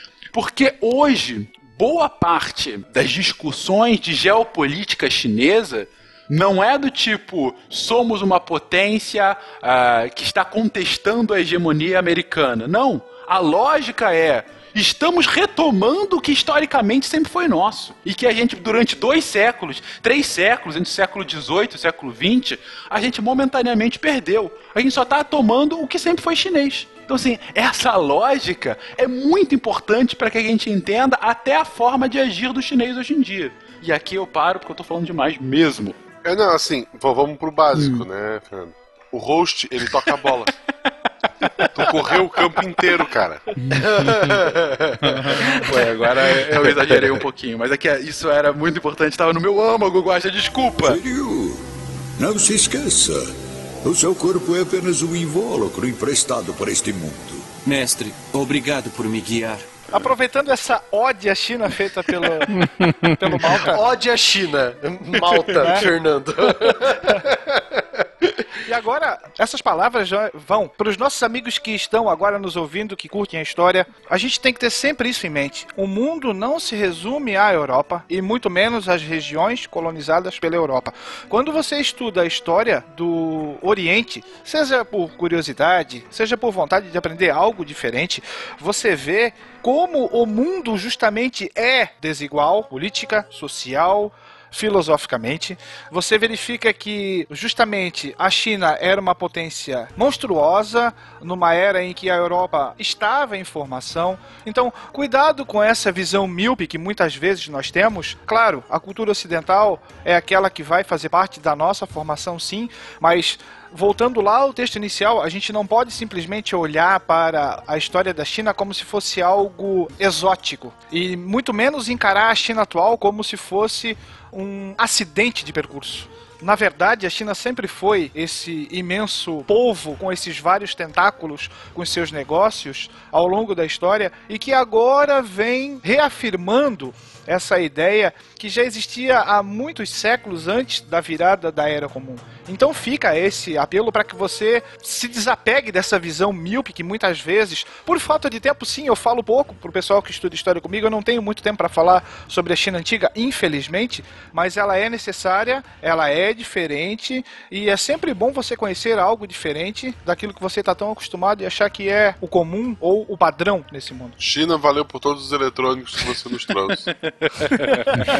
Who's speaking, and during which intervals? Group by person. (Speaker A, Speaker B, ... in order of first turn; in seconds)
Speaker A: 0.3-36.0, 37.7-38.0, 43.6-44.3, 45.2-51.0, 167.4-167.8
Speaker B: 36.2-40.5, 41.7-43.4, 164.2-166.9
Speaker C: 43.8-44.6, 63.5-68.2
Speaker D: 50.8-51.6, 52.2-53.3, 53.8-57.5
Speaker E: 57.6-59.8
Speaker F: 59.9-63.8, 65.6-65.9, 68.6-164.2